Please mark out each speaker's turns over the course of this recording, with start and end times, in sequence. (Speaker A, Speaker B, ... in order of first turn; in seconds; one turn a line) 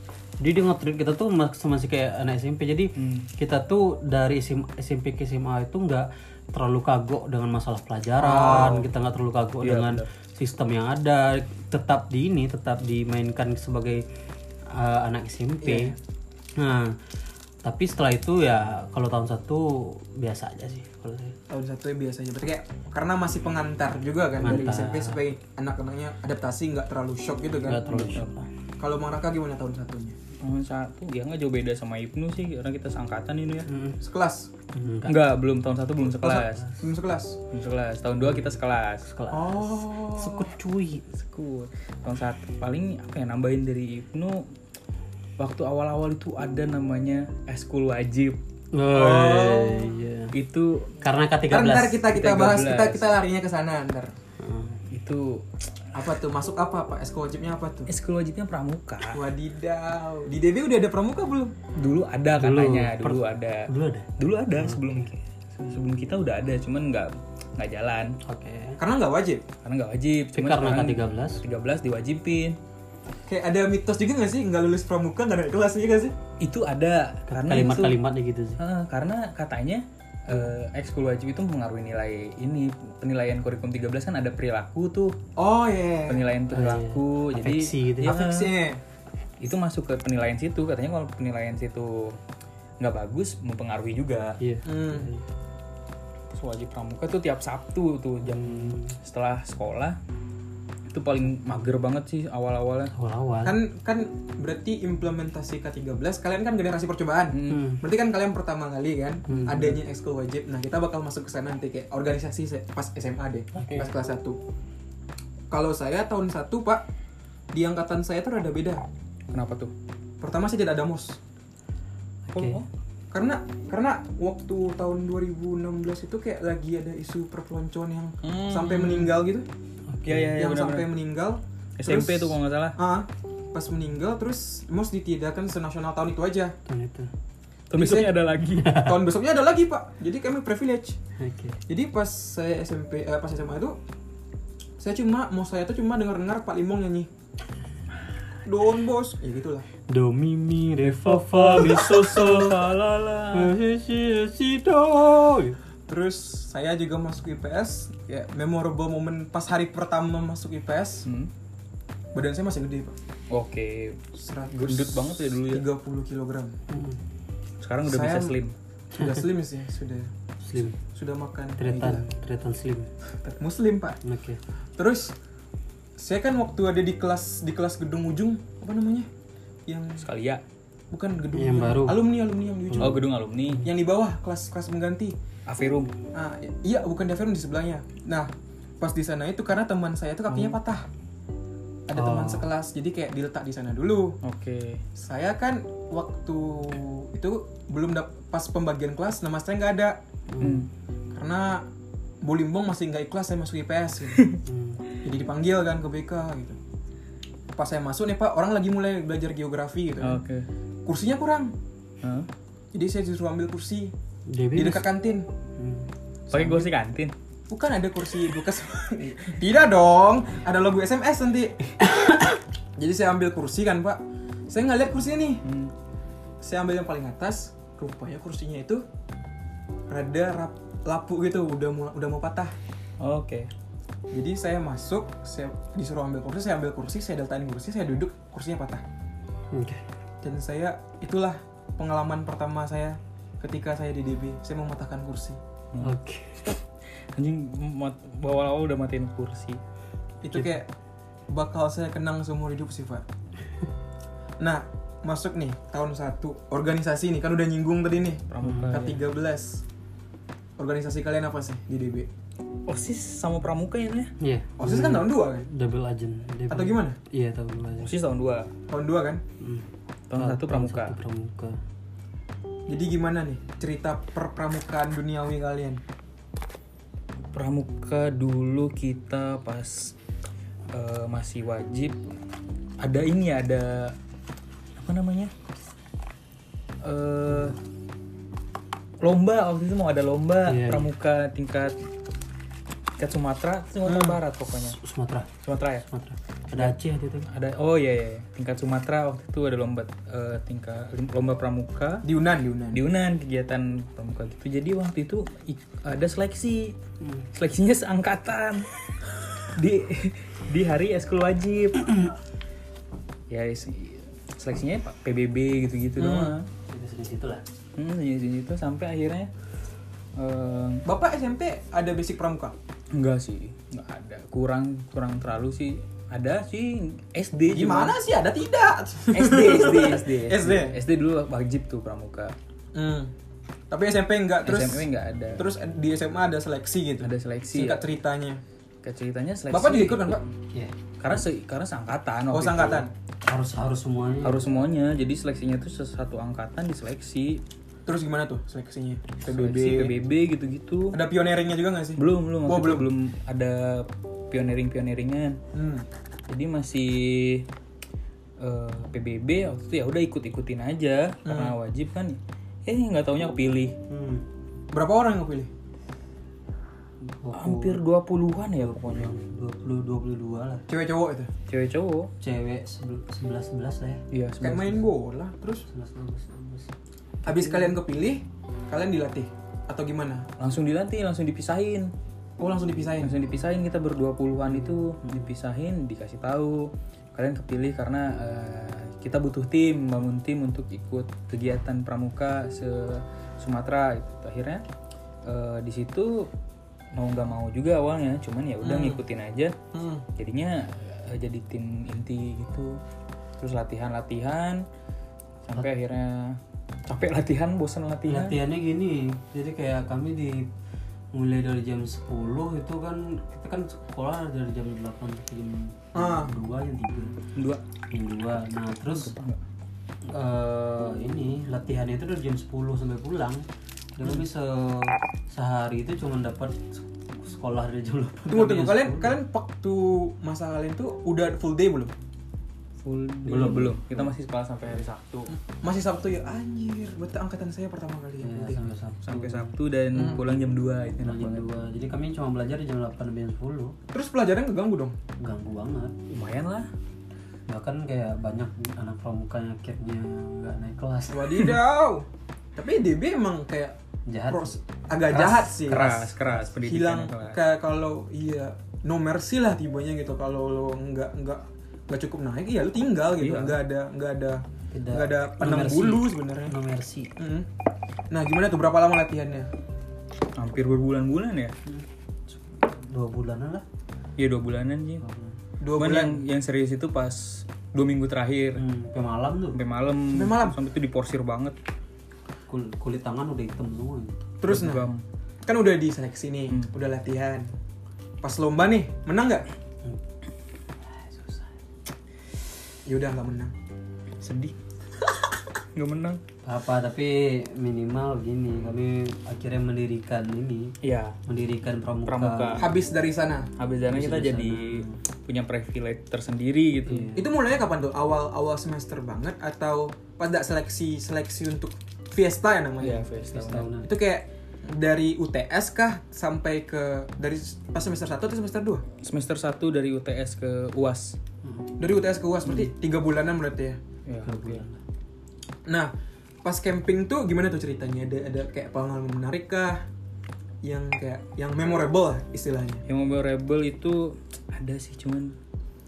Speaker A: 0.4-14.0
Speaker B: 3.0-3.3
Speaker C: 8.2-8.8
Speaker B: 8.4-8.8
Speaker B: 9.6-10.1
Speaker A: 14.7-15.9
Speaker C: 15.6-16.0
Speaker A: 16.6-17.0
Speaker A: 17.6-21.4
Speaker C: 21.5-28.0
Speaker A: 24.4-25.2
Speaker A: 27.6-28.5
Speaker B: 27.9-28.3
Speaker C: 28.8-30.2
Speaker B: 30.4-33.7
Speaker A: 33.7-34.0
Speaker C: 34.0-34.5
Speaker A: 34.7-35.2
Speaker B: 35.0-36.6
Speaker C: 36.0-37.4
Speaker B: 37.5-39.1
Speaker A: 38.2-41.0
Speaker C: 39.3-40.5
Speaker B: 41.1-44.5
Speaker B: 45.4-48.4
Speaker A: 48.7-50.3
Speaker C: 48.9-49.9
Speaker B: 50.3-51.0
Speaker A: 51.0-52.0
Speaker C: 51.5-54.1
Speaker B: 52.1-53.1
Speaker A: 54.4-54.8
Speaker B: 54.9-55.5
Speaker C: 55.9-57.9
Speaker B: 57.9-59.2
Speaker C: 59.1-61.5
Speaker B: 61.8-68.2
Speaker A: 62.4-65.1
Speaker A: 68.2-68.8
Speaker C: 68.8-69.5
Speaker B: 69.6-72.6
Speaker A: 70.3-71.4
Speaker C: 73.3-76.2
Speaker B: 76.4-78.0
Speaker A: 77.3-78.6
Speaker B: 78.6-85.1
Speaker C: 85.4-86.2
Speaker B: 86.1-88.5
Speaker A: 86.5-88.2
Speaker C: 88.0-88.8
Speaker B: 89.4-92.2
Speaker B: 92.8-94.4
Speaker A: 94.4-95.2
Speaker C: 94.6-95.1
Speaker B: 96.3-100.0
Speaker A: 98.3-98.9
Speaker B: 100.9-102.9
Speaker A: 102.9-103.6
Speaker C: 103.4-114.4
Speaker B: 107.3-107.7
Speaker A: 107.5-107.8
Speaker A: 109.3-109.8
Speaker B: 113.6-113.8
Speaker C: 115.5-116.8
Speaker C: 117.5-118.8
Speaker B: 119.3-119.7
Speaker C: 120.2-121.2
Speaker A: 122.3-122.6
Speaker B: 122.3-122.7
Speaker C: 123.1-129.5
Speaker B: 128.2-129.2
Speaker A: 129.9-130.4
Speaker B: 130.1-130.9
Speaker C: 130.3-136.5
Speaker B: 131.8-132.8
Speaker A: 136.7-137.1
Speaker B: 137.7-138.9
Speaker C: 137.7-138.1
Speaker A: 138.6-138.9
Speaker C: 138.7-141.0
Speaker A: 141.2-141.6
Speaker C: 141.7-143.8
Speaker C: 144.8-147.1
Speaker C: 148.4-149.7
Speaker A: 149.9-152.7
Speaker B: 150.8-153.5
Speaker A: 153.3-155.6
Speaker C: 155.9-161.1
Speaker C: 162.1-162.9
Speaker B: 163.3-164.0
Speaker C: 164.1-166.6
Speaker B: 164.6-165.6
Speaker A: 166.7-167.0
Speaker B: 167.6-168.5
Speaker C: 167.8-168.3
Speaker C: 168.9-170.1
Speaker A: 170.4-170.8
Speaker C: 170.9-172.0
Speaker A: 171.6-172.9
Speaker C: 173.2-174.0
Speaker A: 174.0-174.4
Speaker C: 174.8-175.1
Speaker C: 176.0-179.1
Speaker C: 179.7-180.1
Speaker B: 180.0-180.4
Speaker C: 180.9-183.1
Speaker A: 181.3-182.1
Speaker A: 182.7-183.6
Speaker B: 182.8-183.7
Speaker C: 183.6-185.2
Speaker B: 185.5-185.9
Speaker C: 186.1-190.8
Speaker C: 191.9-194.2
Speaker A: 191.9-192.4
Speaker B: 194.2-194.8
Speaker C: 194.9-200.0
Speaker A: 200.3-200.7
Speaker B: 200.4-200.7
Speaker C: 201.1-201.7
Speaker C: 202.2-204.2
Speaker A: 204.4-204.8
Speaker C: 205.0-206.6
Speaker C: 207.5-210.2
Speaker B: 210.0-210.5
Speaker C: 210.8-211.5
Speaker B: 212.0-212.3
Speaker C: 212.7-213.9
Speaker A: 214.3-214.8
Speaker C: 214.5-215.3
Speaker A: 215.6-215.9
Speaker C: 216.3-216.7
Speaker B: 216.3-217.1
Speaker C: 217.5-225.4
Speaker B: 225.4-225.7
Speaker C: 226.4-228.8
Speaker C: 229.9-232.6
Speaker B: 233.0-233.5
Speaker C: 234.1-238.8
Speaker A: 239.5-239.8
Speaker C: 240.2-245.4
Speaker B: 245.7-246.5
Speaker A: 245.8-246.4
Speaker B: 247.1-249.6
Speaker C: 250.2-250.7
Speaker C: 251.3-253.0
Speaker C: 254.4-259.6
Speaker B: 258.3-259.0
Speaker A: 258.4-258.8
Speaker C: 260.6-262.1
Speaker B: 262.7-264.1
Speaker A: 264.2-267.9
Speaker C: 264.6-265.5
Speaker C: 266.5-267.0
Speaker B: 267.8-268.5
Speaker C: 268.7-269.2
Speaker A: 269.4-271.6
Speaker B: 270.1-270.9
Speaker C: 272.7-275.8
Speaker B: 277.3-279.9
Speaker B: 280.7-282.0
Speaker B: 282.8-283.9
Speaker B: 284.8-285.3
Speaker B: 286.8-287.6
Speaker B: 289.0-291.7
Speaker A: 290.4-290.9
Speaker B: 293.0-294.8
Speaker C: 293.8-294.2
Speaker A: 294.7-295.3
Speaker B: 295.4-295.9
Speaker A: 295.9-297.3
Speaker B: 297.3-302.1
Speaker C: 302.0-302.8
Speaker B: 302.7-306.8
Speaker A: 307.0-307.2
Speaker B: 307.3-312.1
Speaker B: 313.3-316.5
Speaker C: 316.0-316.4
Speaker A: 316.6-317.4
Speaker B: 317.8-319.3
Speaker B: 320.1-320.8
Speaker C: 320.8-322.6
Speaker B: 322.9-328.0
Speaker C: 327.5-330.8
Speaker B: 329.1-332.3
Speaker C: 332.7-333.1
Speaker C: 333.7-338.4
Speaker B: 334.4-335.4
Speaker B: 337.0-337.9
Speaker B: 338.8-340.2
Speaker C: 339.5-340.2
Speaker B: 341.0-342.9
Speaker C: 342.3-342.9
Speaker A: 343.2-344.4
Speaker B: 344.2-347.4
Speaker C: 347.9-349.9
Speaker B: 349.2-351.0
Speaker C: 350.9-352.9
Speaker B: 352.0-355.4
Speaker C: 355.5-355.9
Speaker B: 356.3-357.4
Speaker B: 358.4-363.8
Speaker C: 361.2-361.5
Speaker A: 363.9-364.2
Speaker C: 364.7-365.5
Speaker A: 367.0-367.8
Speaker B: 367.3-369.1
Speaker A: 368.6-370.6
Speaker C: 370.7-371.3
Speaker B: 371.5-372.1
Speaker A: 372.2-374.0
Speaker B: 374.1-374.8
Speaker C: 374.4-375.6
Speaker A: 375.7-376.7
Speaker C: 377.2-380.3
Speaker A: 377.4-377.7
Speaker B: 380.4-381.9
Speaker C: 382.4-383.1
Speaker B: 383.0-394.6
Speaker A: 384.5-385.2
Speaker B: 395.2-396.3
Speaker B: 396.9-399.5
Speaker C: 398.6-399.0
Speaker C: 399.7-400.1
Speaker B: 400.2-402.8
Speaker B: 403.4-404.6
Speaker B: 405.4-408.4
Speaker A: 408.1-410.5
Speaker A: 411.1-417.1
Speaker C: 415.9-416.3
Speaker B: 417.4-417.6
Speaker A: 417.9-419.1
Speaker B: 418.9-419.4
Speaker A: 420.0-423.4
Speaker A: 424.0-429.2
Speaker C: 428.3-431.9
Speaker B: 432.8-435.4
Speaker A: 433.2-434.1
Speaker C: 435.5-438.6
Speaker A: 438.2-440.1
Speaker B: 439.0-441.4
Speaker C: 439.9-440.2
Speaker A: 441.0-443.8
Speaker C: 443.9-445.0
Speaker A: 445.2-446.0
Speaker B: 446.1-446.7
Speaker A: 447.5-451.5
Speaker C: 451.1-453.8
Speaker A: 454.1-454.6
Speaker C: 454.3-466.5
Speaker A: 455.1-455.6
Speaker B: 455.5-457.4
Speaker B: 463.2-463.6
Speaker A: 464.7-467.1
Speaker C: 467.2-467.5
Speaker C: 468.1-469.5
Speaker B: 470.4-471.5
Speaker A: 471.7-473.6
Speaker B: 474.2-475.0
Speaker A: 475.0-475.3
Speaker C: 475.6-476.2
Speaker B: 475.8-478.6
Speaker A: 478.6-479.6
Speaker B: 479.5-481.6
Speaker C: 480.1-480.6
Speaker A: 482.5-484.2
Speaker C: 484.4-484.9
Speaker B: 484.4-485.0
Speaker C: 485.4-487.5
Speaker C: 488.2-489.4
Speaker A: 490.9-491.5
Speaker C: 492.9-493.5
Speaker B: 494.2-494.5
Speaker B: 495.7-496.2
Speaker A: 496.4-500.7
Speaker B: 500.8-501.2
Speaker A: 501.2-502.6
Speaker B: 502.0-502.7
Speaker C: 502.6-503.5
Speaker B: 503.6-507.1
Speaker A: 503.9-505.0
Speaker A: 506.8-507.2
Speaker C: 507.1-513.0
Speaker B: 512.8-513.7
Speaker A: 513.3-513.9
Speaker C: 513.8-518.8
Speaker B: 519.0-521.2
Speaker C: 521.8-523.8
Speaker B: 524.0-524.6
Speaker A: 524.2-524.8
Speaker C: 525.7-525.9
Speaker C: 526.4-529.9
Speaker C: 530.6-532.8
Speaker B: 532.9-535.3